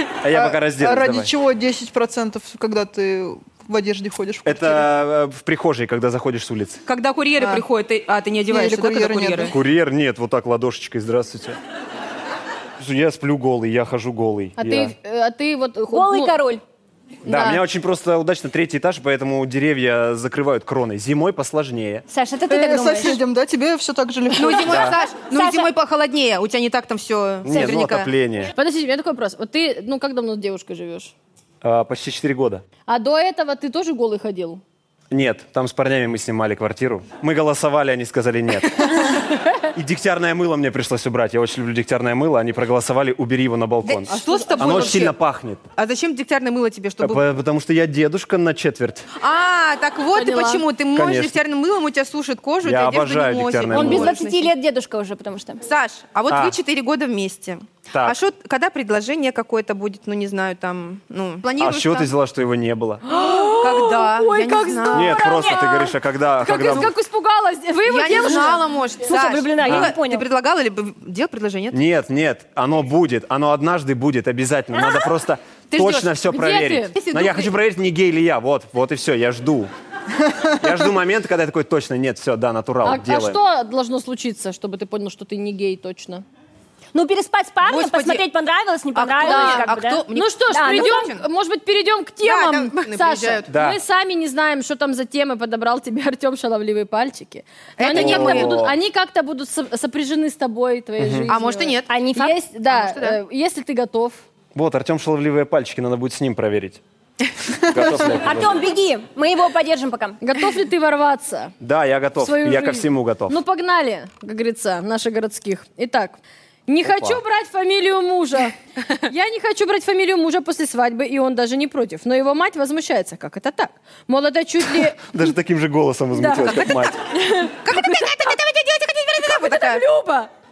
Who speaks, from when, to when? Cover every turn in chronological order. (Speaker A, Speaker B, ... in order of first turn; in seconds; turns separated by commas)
Speaker A: 0.2-1.3, Speaker B: 0.3-4.9, Speaker A: 4.5-6.8, Speaker C: 6.9-9.6, Speaker B: 7.4-7.7, Speaker B: 8.5-9.6, Speaker A: 9.5-11.6, Speaker A: 12.8-14.9, Speaker D: 14.6-16.4, Speaker E: 15.9-16.6, Speaker A: 17.2-22.1, Speaker D: 17.3-17.6, Speaker E: 22.1-23.2, Speaker B: 22.5-24.9, Speaker C: 24.3-28.1, Speaker A: 24.7-25.0, Speaker E: 25.3-25.7, Speaker A: 27.4-28.5, Speaker D: 28.6-31.1, Speaker A: 31.6-32.6, Speaker D: 32.9-34.6, Speaker A: 35.1-45.7, Speaker C: 43.9-45.2, Speaker D: 44.1-45.0, Speaker C: 45.8-47.2, Speaker A: 47.0-49.1, Speaker C: 49.2-54.5, Speaker D: 50.1-50.6, Speaker A: 50.9-51.4, Speaker A: 52.6-54.2, Speaker E: 53.7-55.6, Speaker C: 55.6-62.1, Speaker A: 56.3-56.6, Speaker A: 57.9-58.2, Speaker A: 61.6-63.0, Speaker D: 63.0-68.7, Speaker C: 63.6-65.3, Speaker A: 64.9-66.9, Speaker E: 65.2-65.9, Speaker C: 67.9-71.8, Speaker E: 69.0-70.2, Speaker A: 69.6-70.0, Speaker A: 71.7-79.7, Speaker E: 74.7-75.1, Speaker C: 75.7-76.1, Speaker D: 76.3-76.9, Speaker C: 77.0-77.5, Speaker A: 80.6-83.4, Speaker D: 82.8-86.2, Speaker E: 86.9-91.1, Speaker C: 87.7-88.2, Speaker C: 89.0-91.2, Speaker D: 89.2-104.2, Speaker C: 92.2-93.5, Speaker A: 93.5-93.8, Speaker C: 97.8-98.6, Speaker A: 97.9-98.8, Speaker A: 101.0-101.3, Speaker C: 101.3-101.9, Speaker E: 101.9-102.3, Speaker C: 102.7-103.2, Speaker A: 104.5-106.8, Speaker A: 107.6-108.6, Speaker E: 108.2-110.2, Speaker D: 110.2-111.5, Speaker A: 111.6-113.4, Speaker D: 112.2-125.0, Speaker A: 116.8-117.2, Speaker A: 124.9-127.0, Speaker D: 126.2-128.3, Speaker C: 127.6-129.8, Speaker D: 129.2-130.3